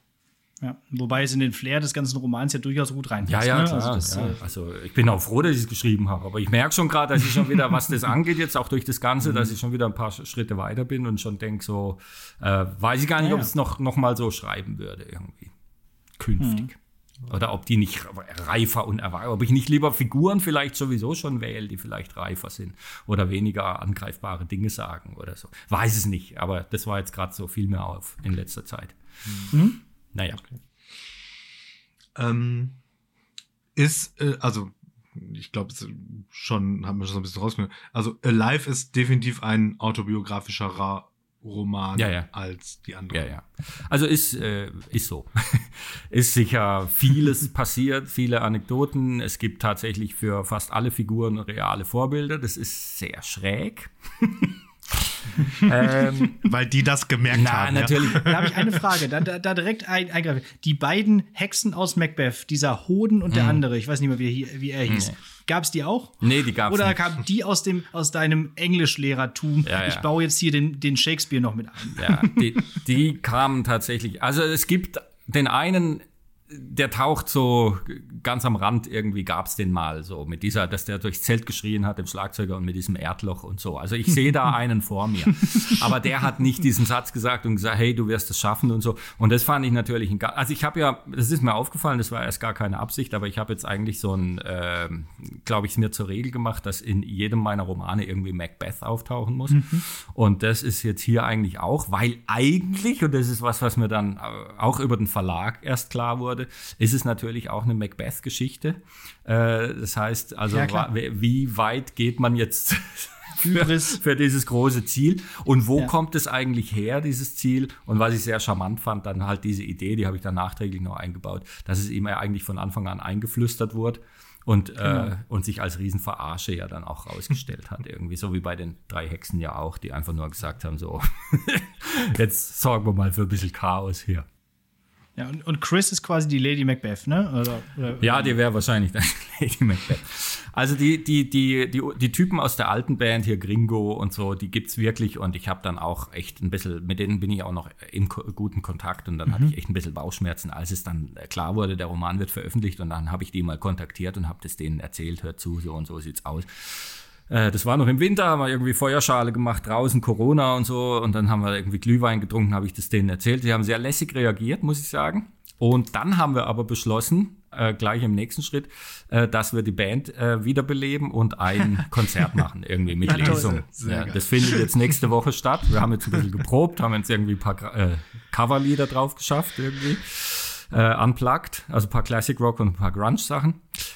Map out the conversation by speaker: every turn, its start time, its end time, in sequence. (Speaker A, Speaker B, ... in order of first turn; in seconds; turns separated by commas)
Speaker A: 0.6-4.4, Speaker B: 3.2-15.5, Speaker A: 13.2-13.5, Speaker B: 16.2-16.8, Speaker A: 16.4-16.7, Speaker B: 17.3-28.9, Speaker A: 29.5-29.8, Speaker B: 30.1-30.4, Speaker C: 32.1-32.8, Speaker C: 33.8-43.3, Speaker B: 42.0-42.3, Speaker B: 43.1-56.5, Speaker C: 56.3-58.6, Speaker B: 57.3-58.5, Speaker A: 58.2-72.6, Speaker B: 63.3-63.6, Speaker B: 64.9-65.2, Speaker B: 66.2-67.0, Speaker B: 69.6-70.1, Speaker B: 71.9-134.3, Speaker A: 99.5-99.8, Speaker A: 110.5-110.9, Speaker A: 113.4-114.0, Speaker A: 124.8-125.1, Speaker A: 135.2-138.4, Speaker B: 138.0-183.7, Speaker C: 173.0-174.7, Speaker A: 173.1-173.5